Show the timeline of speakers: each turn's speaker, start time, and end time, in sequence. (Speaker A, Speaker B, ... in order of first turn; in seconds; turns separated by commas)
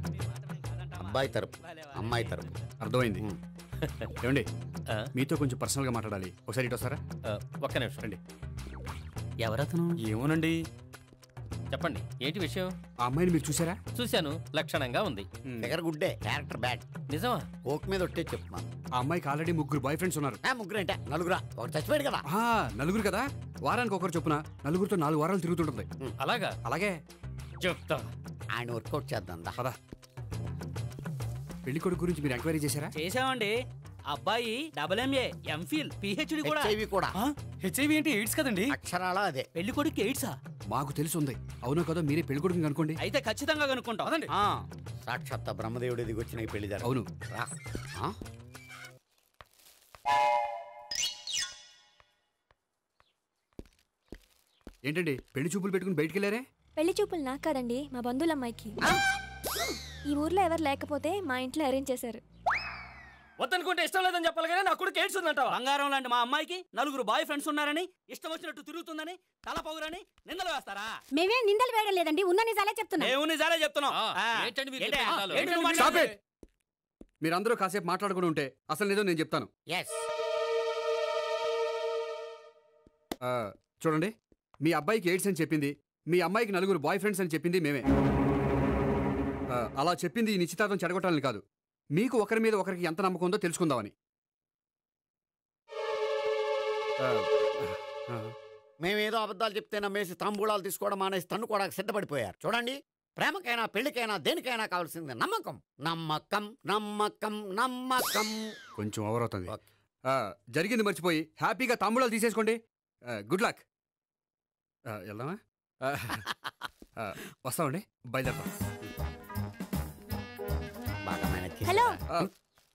Speaker A: 0.2-2.4, Speaker B: 1.0-2.5, Speaker C: 2.8-3.2, Speaker C: 4.2-4.5, Speaker C: 5.2-7.0, Speaker D: 7.4-8.0, Speaker E: 10.0-10.6, Speaker D: 11.7-12.7, Speaker C: 13.0-13.8, Speaker D: 13.9-15.3, Speaker B: 15.6-16.9, Speaker D: 17.1-17.4, Speaker B: 17.6-18.6, Speaker C: 19.0-20.4, Speaker B: 20.4-22.2, Speaker C: 22.3-25.9, Speaker D: 26.2-26.6, Speaker C: 26.7-27.0, Speaker D: 27.6-28.1, Speaker B: 28.6-29.6, Speaker C: 31.7-32.9, Speaker A: 33.0-33.5, Speaker A: 34.1-36.7, Speaker B: 36.4-37.1, Speaker E: 37.2-38.7, Speaker B: 38.7-39.5, Speaker A: 39.6-40.4, Speaker C: 40.7-43.0, Speaker A: 43.0-44.6, Speaker E: 44.0-44.3, Speaker B: 45.0-48.1, Speaker C: 54.9-56.4, Speaker F: 56.8-58.9, Speaker F: 60.1-62.2, Speaker A: 65.0-70.9, Speaker G: 71.1-73.1, Speaker A: 73.0-76.1, Speaker D: 73.9-75.9, Speaker C: 75.7-76.1, Speaker C: 77.2-79.5, Speaker B: 79.7-80.0, Speaker C: 83.3-87.9, Speaker C: 89.5-91.4, Speaker C: 91.9-93.9, Speaker C: 97.0-98.3, Speaker B: 98.8-108.5, Speaker C: 108.8-109.5, Speaker C: 110.1-112.6, Speaker C: 113.1-113.6, Speaker C: 114.9-116.2, Speaker C: 117.0-118.5, Speaker B: 121.0-122.0, Speaker F: 121.7-122.0